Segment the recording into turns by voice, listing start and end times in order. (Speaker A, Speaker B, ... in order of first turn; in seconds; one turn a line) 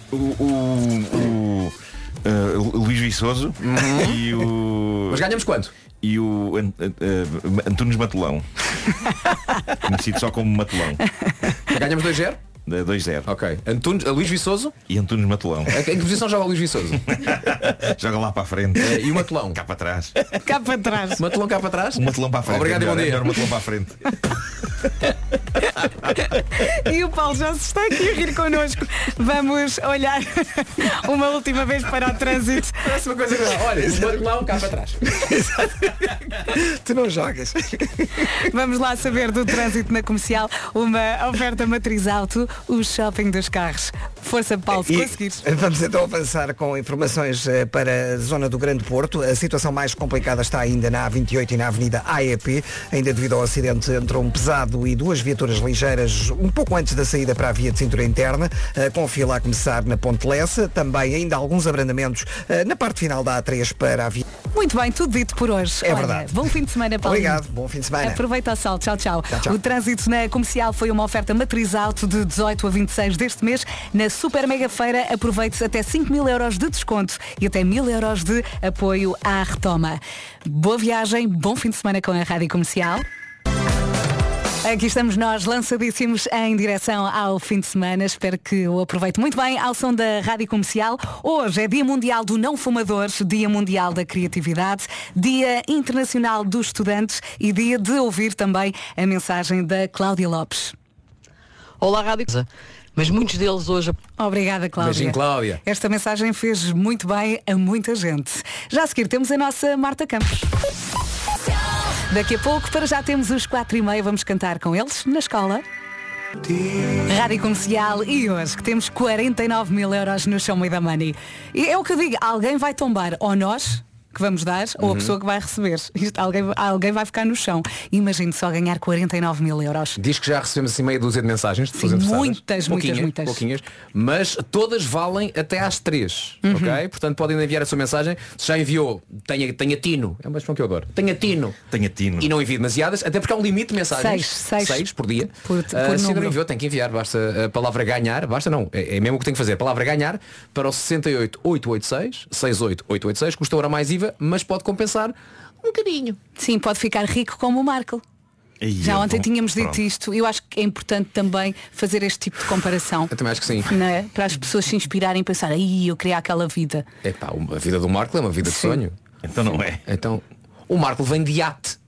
Speaker A: 0.1-5.2
Speaker B: 3.6-4.5
Speaker B: 5.1-5.7
Speaker A: 6.0-8.4
Speaker A: 9.8-11.0
Speaker B: 11.7-12.4
Speaker A: 12.7-13.3
Speaker B: 13.3-14.8
Speaker A: 14.9-15.9
Speaker B: 15.7-17.1
Speaker A: 17.1-20.4
Speaker B: 18.8-19.6
Speaker C: 20.4-21.2
Speaker B: 21.2-23.5
Speaker A: 21.9-24.1
Speaker C: 26.6-32.8
Speaker B: 32.8-35.0
Speaker D: 35.2-35.7
Speaker D: 36.5-38.1
Speaker C: 38.5-45.4
Speaker D: 45.4-64.2
Speaker C: 64.5-67.4
Speaker D: 65.8-66.4
Speaker D: 67.0-68.2
Speaker C: 68.0-83.0
Speaker C: 84.6-100.8
Speaker E: 101.8-104.0
Speaker C: 104.2-110.5
Speaker B: 104.8-105.6
Speaker C: 112.1-115.6
Speaker C: 117.0-130.0
Speaker B: 124.8-125.2
Speaker B: 130.0-141.6
Speaker C: 131.8-133.4
Speaker C: 136.4-136.8
Speaker A: 141.7-142.3
Speaker B: 142.2-156.2
Speaker C: 143.9-144.9
Speaker C: 145.4-146.4
Speaker C: 156.4-158.0
Speaker A: 158.6-159.8
Speaker C: 158.8-163.1
Speaker B: 163.1-163.7
Speaker C: 163.7-166.9
Speaker B: 167.0-169.0
Speaker C: 168.4-168.8
Speaker A: 169.2-169.8
Speaker B: 169.6-171.8